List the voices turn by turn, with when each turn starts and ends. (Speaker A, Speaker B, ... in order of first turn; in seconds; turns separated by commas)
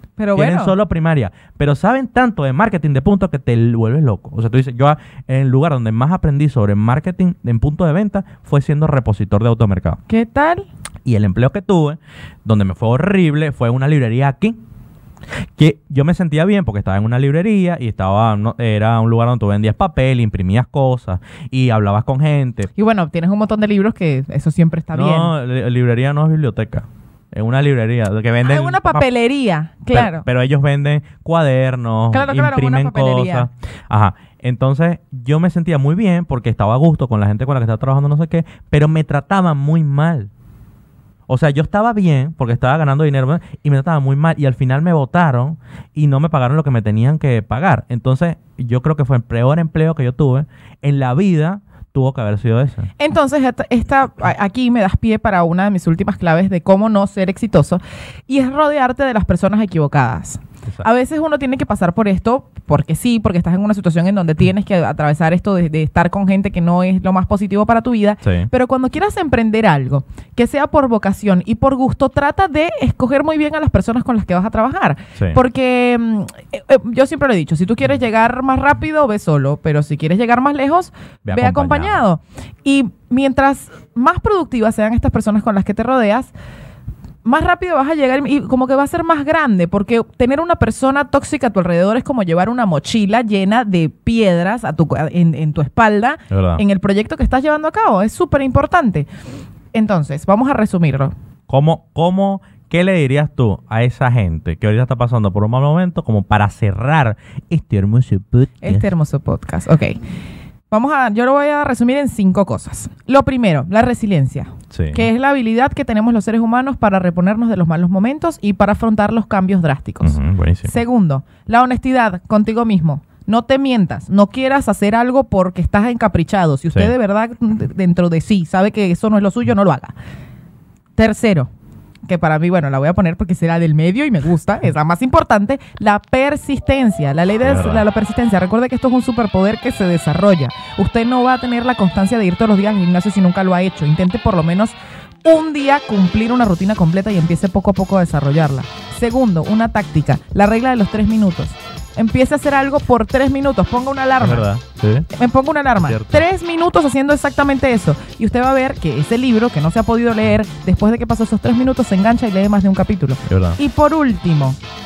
Speaker A: 0.2-0.8, Speaker B: 0.3-10.0, Speaker A: 10.1-10.7, Speaker B: 11.1-14.6, Speaker B: 15.6-22.7, Speaker A: 22.8-25.3, Speaker B: 24.9-29.1, Speaker A: 28.4-30.2, Speaker B: 29.9-40.3, Speaker A: 32.1-33.5, Speaker B: 41.3-52.9, Speaker A: 53.0-86.3, Speaker B: 68.2-68.5, Speaker B: 81.2-82.0, Speaker A: 87.2-99.1, Speaker B: 96.3-96.6, Speaker A: 99.7-101.1, Speaker B: 101.5-108.9, Speaker A: 108.6-110.0, Speaker A: 110.7-129.9, Speaker B: 114.7-115.1, Speaker B: 120.0-120.8, Speaker A: 131.0-131.5, Speaker A: 132.1-154.5, Speaker B: 137.4-137.9, Speaker B: 154.2-155.1, Speaker A: 155.1-164.6, Speaker B: 155.8-156.2, Speaker B: 163.3-163.6